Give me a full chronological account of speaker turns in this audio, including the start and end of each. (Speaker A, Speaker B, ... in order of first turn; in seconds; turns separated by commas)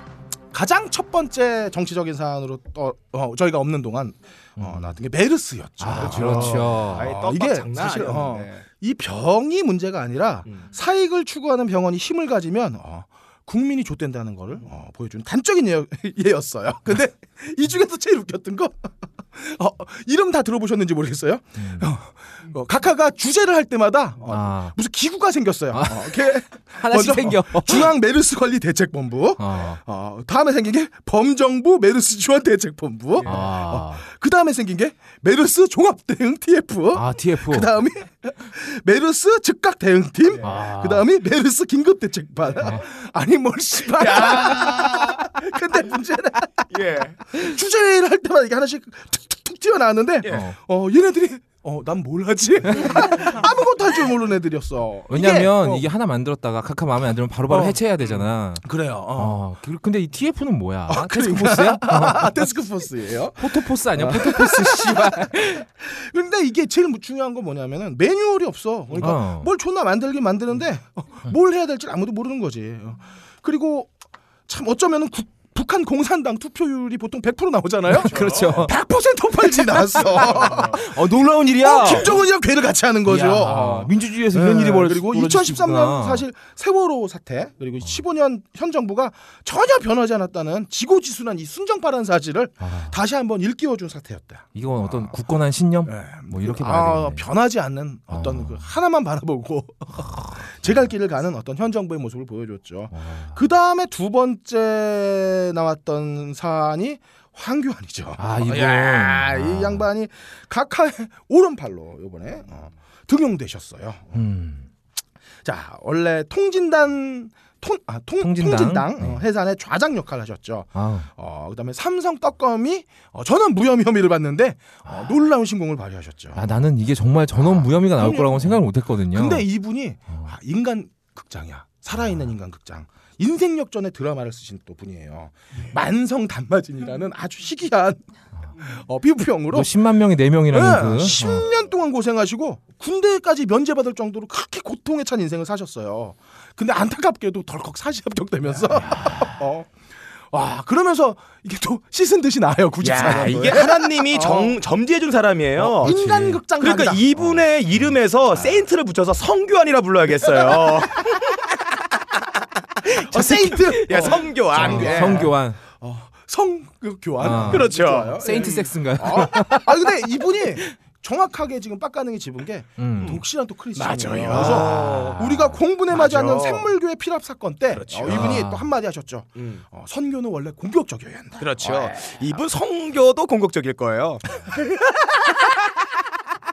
Speaker A: 0.5-46.7, Speaker B: 4.6-4.9, Speaker B: 5.8-7.1, Speaker C: 6.0-8.6, Speaker B: 21.6-21.9, Speaker B: 24.3-24.7, Speaker B: 25.7-27.9, Speaker B: 29.4-29.8, Speaker B: 33.2-34.0, Speaker B: 36.9-37.7, Speaker B: 40.4-41.1, Speaker C: 43.9-45.3, Speaker C: 46.7-47.2, Speaker A: 47.3-55.9, Speaker B: 50.3-50.5, Speaker B: 55.1-62.5, Speaker A: 57.5-57.8, Speaker A: 58.6-59.4, Speaker A: 60.9-73.9, Speaker B: 63.4-65.6, Speaker B: 69.0-69.5, Speaker A: 74.5-81.0, Speaker B: 77.9-78.7, Speaker C: 78.0-78.6, Speaker B: 79.6-82.2, Speaker C: 80.2-80.8, Speaker A: 81.6-95.1, Speaker B: 83.0-86.2, Speaker B: 92.6-92.9, Speaker B: 94.5-97.2, Speaker A: 95.8-114.2, Speaker B: 98.1-98.7, Speaker B: 100.0-100.4, Speaker B: 102.9-103.3, Speaker B: 108.2-109.9, Speaker B: 114.1-114.7, Speaker A: 115.4-126.4, Speaker B: 118.2-119.2, Speaker B: 120.7-121.1, Speaker B: 124.9-125.1, Speaker B: 126.3-129.5, Speaker A: 127.4-138.0, Speaker A: 138.6-139.7, Speaker B: 139.5-141.4, Speaker A: 140.5-149.7, Speaker B: 148.8-149.4, Speaker A: 150.3-154.6, Speaker C: 152.8-155.9, Speaker B: 155.6-156.4, Speaker A: 155.8-157.1, Speaker C: 156.6-161.4, Speaker A: 162.9-182.1, Speaker B: 163.1-165.6, Speaker C: 163.5-165.3, Speaker B: 167.2-170.1, Speaker C: 167.2-168.7, Speaker B: 172.8-173.2, Speaker C: 173.8-175.2, Speaker B: 174.3-175.6, Speaker C: 175.9-176.7, Speaker C: 177.7-178.4, Speaker B: 178.1-178.7, Speaker C: 179.3-179.6, Speaker C: 181.4-184.3